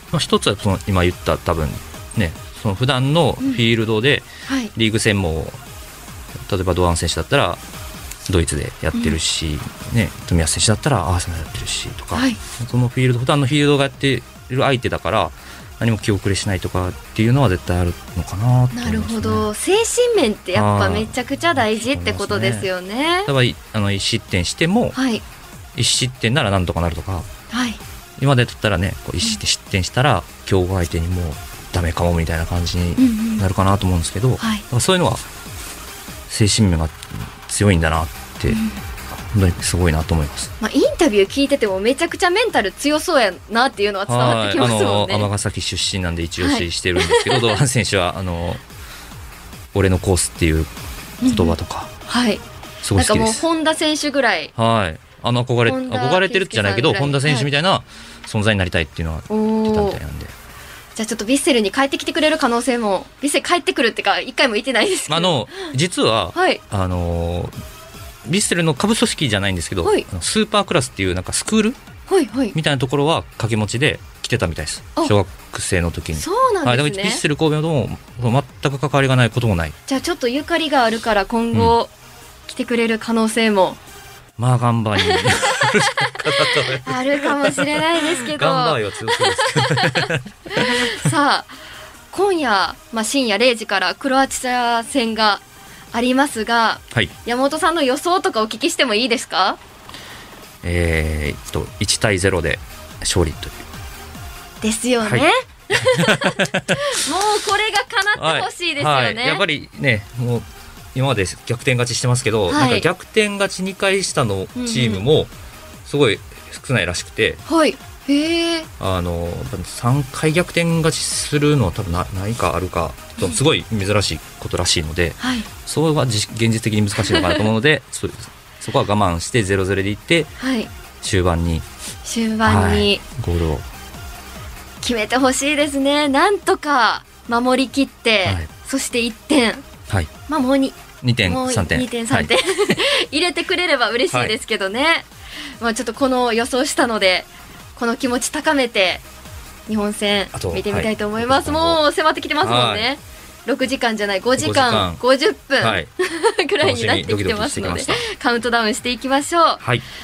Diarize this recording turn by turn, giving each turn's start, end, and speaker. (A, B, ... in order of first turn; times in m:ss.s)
0:00.1-0:05.6 A
0:04.5-0:04.7 B
0:06.5-0:07.6 A
0:08.3-0:19.5 A
0:12.1-0:12.4 B
0:18.7-0:23.3 B
0:20.5-0:22.7 A
0:23.3-0:25.0 A
0:24.9-0:25.2 B
0:25.7-0:27.3 A
0:27.5-0:27.8 B
0:28.2-0:35.2 A
0:33.0-0:33.4 B
0:34.4-0:34.6 B
0:36.3-0:38.6 A
0:38.5-0:38.8 B
0:39.1-0:40.5 A
0:40.6-0:45.3 B
0:44.1-0:48.6 A
0:46.4-0:47.6 B
0:49.7-0:50.7 A
0:51.2-0:52.4 B
0:51.2-0:51.9 A
0:52.8-0:53.4 A
0:52.9-0:54.5 B
0:54.6-1:00.3 A
0:55.6-0:57.5 B
0:59.3-1:00.0 B
1:00.9-1:05.7 B
1:05.1-1:07.5 A
1:06.3-1:06.6 B
1:08.2-1:11.8 A
1:12.1-1:12.6 B
1:12.5-1:19.7 A
1:16.2-1:17.2 B
1:19.9-1:21.9 B
1:22.5-1:23.8 B
1:24.4-1:31.0 A
1:25.0-1:31.5 B
1:32.1-1:39.6 B
1:40.6-1:43.6 A
1:44.6-1:49.4 B
1:45.0-1:46.8 A
1:48.2-1:55.3 A
1:52.5-1:52.9 B
1:54.6-1:55.0 B
1:55.8-1:57.4 A
1:57.4-1:58.7 B
1:58.8-2:10.3 A
2:05.2-2:05.5 B
2:07.0-2:07.4 B
2:10.4-2:10.7 B
2:11.0-2:11.6 A
2:12.0-2:13.0 B
2:12.4-2:13.6 A
2:14.8-2:19.6 B
2:20.3-2:25.1 B
2:21.0-2:22.3 A
2:25.6-2:29.0 B
2:29.7-2:39.6 B
2:30.3-2:31.8 A
2:32.4-2:32.9 A
2:34.4-2:35.0 A
2:35.6-2:35.9 A
2:36.6-2:38.0 A
2:39.6-2:39.8 A